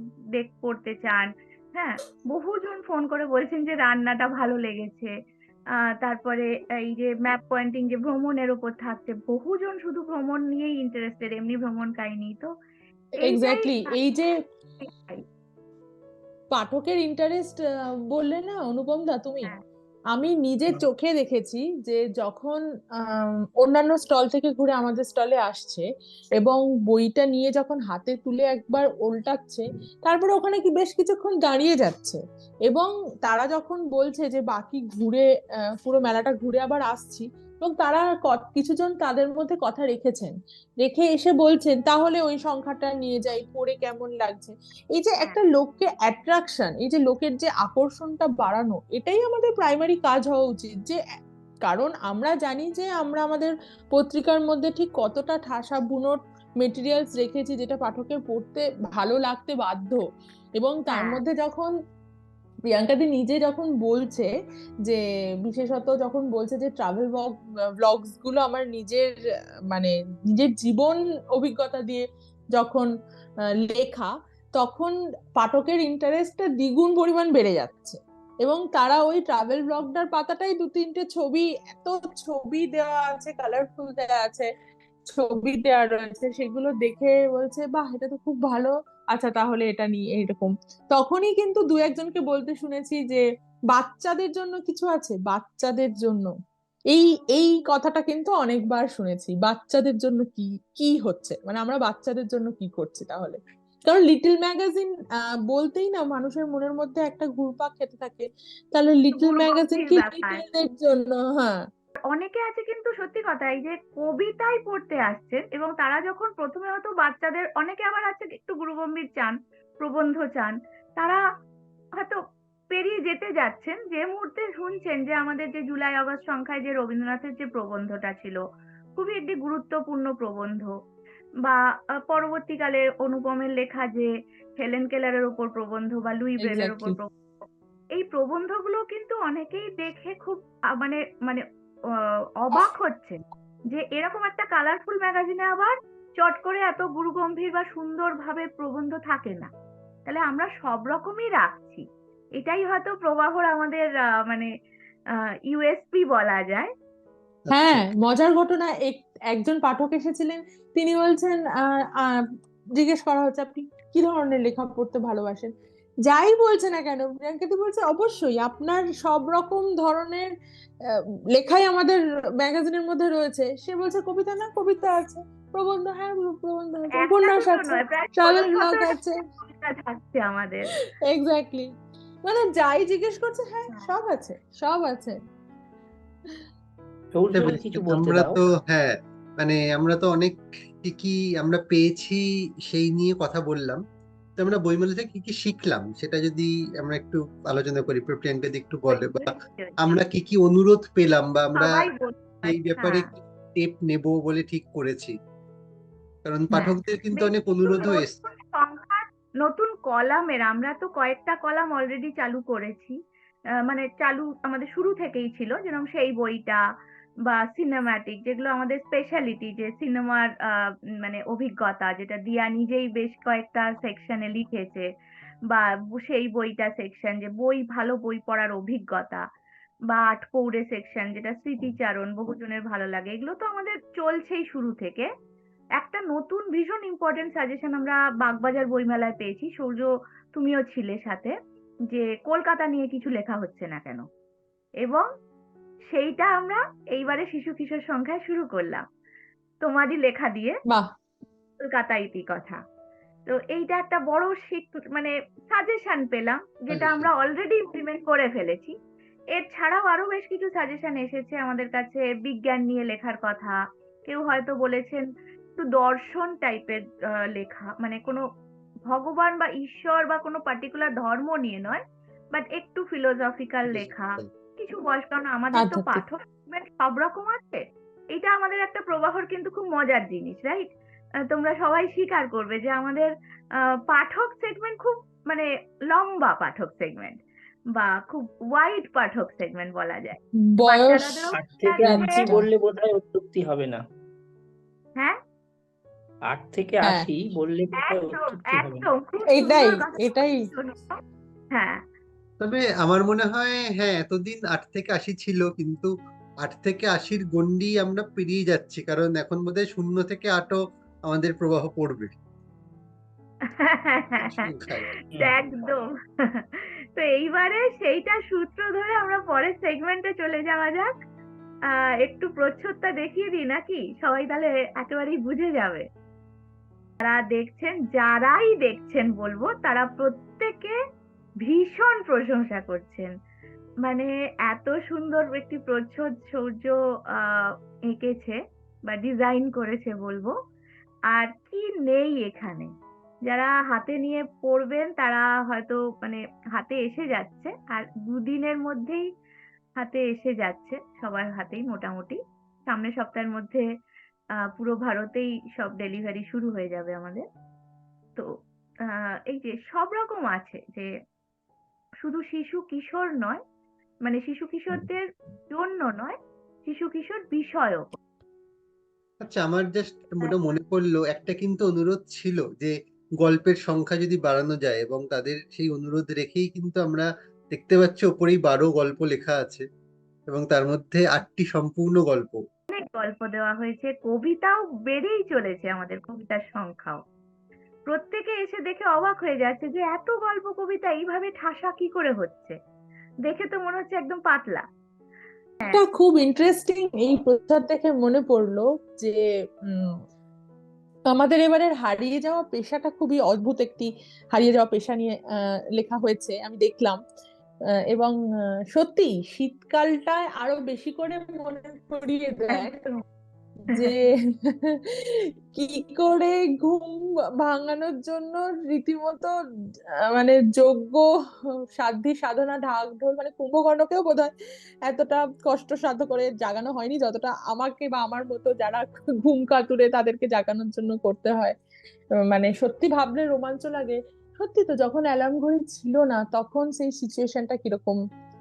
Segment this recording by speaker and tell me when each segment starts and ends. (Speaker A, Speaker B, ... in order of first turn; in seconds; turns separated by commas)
Speaker A: 0.3-5.1, Speaker A: 6.0-12.5, Speaker B: 13.2-14.3, Speaker A: 13.2-14.0, Speaker A: 14.8-15.2, Speaker B: 16.5-19.5, Speaker B: 20.1-51.0, Speaker B: 51.6-60.0, Speaker B: 60.6-61.7, Speaker A: 60.9-61.2, Speaker B: 62.7-64.3, Speaker B: 64.8-69.1, Speaker B: 69.7-72.9, Speaker B: 73.6-84.5, Speaker B: 85.1-96.3, Speaker B: 96.9-111.6, Speaker A: 109.1-110.4, Speaker A: 112.1-121.2, Speaker A: 122.7-128.4, Speaker A: 128.9-130.7, Speaker A: 131.4-137.1, Speaker B: 136.4-137.0, Speaker A: 138.0-141.4, Speaker A: 142.4-149.5, Speaker A: 150.0-151.8, Speaker A: 152.4-154.5, Speaker A: 155.5-156.7, Speaker C: 157.4-157.9, Speaker B: 157.5-162.1, Speaker B: 162.8-165.5, Speaker B: 166.1-170.3, Speaker B: 170.9-179.2, Speaker A: 177.0-180.7, Speaker B: 181.1-181.7, Speaker B: 182.2-185.2, Speaker D: 187.1-188.4, Speaker C: 187.3-193.8, Speaker C: 194.4-199.3, Speaker A: 198.9-199.9, Speaker C: 199.8-201.8, Speaker A: 201.6-203.1, Speaker C: 202.4-205.2, Speaker C: 206.2-208.1, Speaker A: 206.5-212.9, Speaker A: 213.7-216.6, Speaker A: 217.2-224.8, Speaker A: 225.5-229.2, Speaker A: 229.9-235.1, Speaker A: 235.8-241.3, Speaker A: 241.9-244.0, Speaker A: 245.9-248.8, Speaker A: 249.6-250.6, Speaker A: 251.6-252.6, Speaker A: 253.3-258.7, Speaker C: 256.7-257.1, Speaker A: 259.4-265.1, Speaker A: 265.6-268.2, Speaker A: 268.9-271.8, Speaker A: 272.3-277.6, Speaker C: 273.7-274.3, Speaker B: 275.5-276.0, Speaker A: 278.1-280.7, Speaker A: 281.2-283.1, Speaker A: 283.9-287.2, Speaker A: 287.7-292.3, Speaker B: 290.4-291.3, Speaker D: 291.3-293.8, Speaker B: 291.8-292.4, Speaker D: 296.3-298.9, Speaker A: 297.8-300.9, Speaker B: 299.3-300.4, Speaker A: 301.5-301.8, Speaker C: 302.4-312.1, Speaker A: 313.5-314.3, Speaker C: 314.2-314.9, Speaker A: 315.2-320.9, Speaker A: 321.7-325.8, Speaker A: 327.0-330.8, Speaker A: 331.4-333.1, Speaker A: 333.8-338.4, Speaker A: 338.9-340.3, Speaker A: 341.1-342.7, Speaker A: 343.3-349.0, Speaker A: 349.8-353.6, Speaker A: 354.5-357.2, Speaker A: 358.9-360.9, Speaker A: 362.0-363.4, Speaker A: 364.0-368.0, Speaker C: 369.2-379.6, Speaker C: 380.3-382.4, Speaker A: 382.7-387.0, Speaker A: 387.9-392.6, Speaker A: 393.2-394.6, Speaker B: 395.7-400.0, Speaker B: 401.1-405.2, Speaker B: 405.7-407.0, Speaker B: 408.7-412.8, Speaker A: 412.5-413.0, Speaker B: 413.6-419.3, Speaker B: 420.1-421.1, Speaker B: 421.8-424.3, Speaker B: 424.9-431.6, Speaker B: 432.2-438.0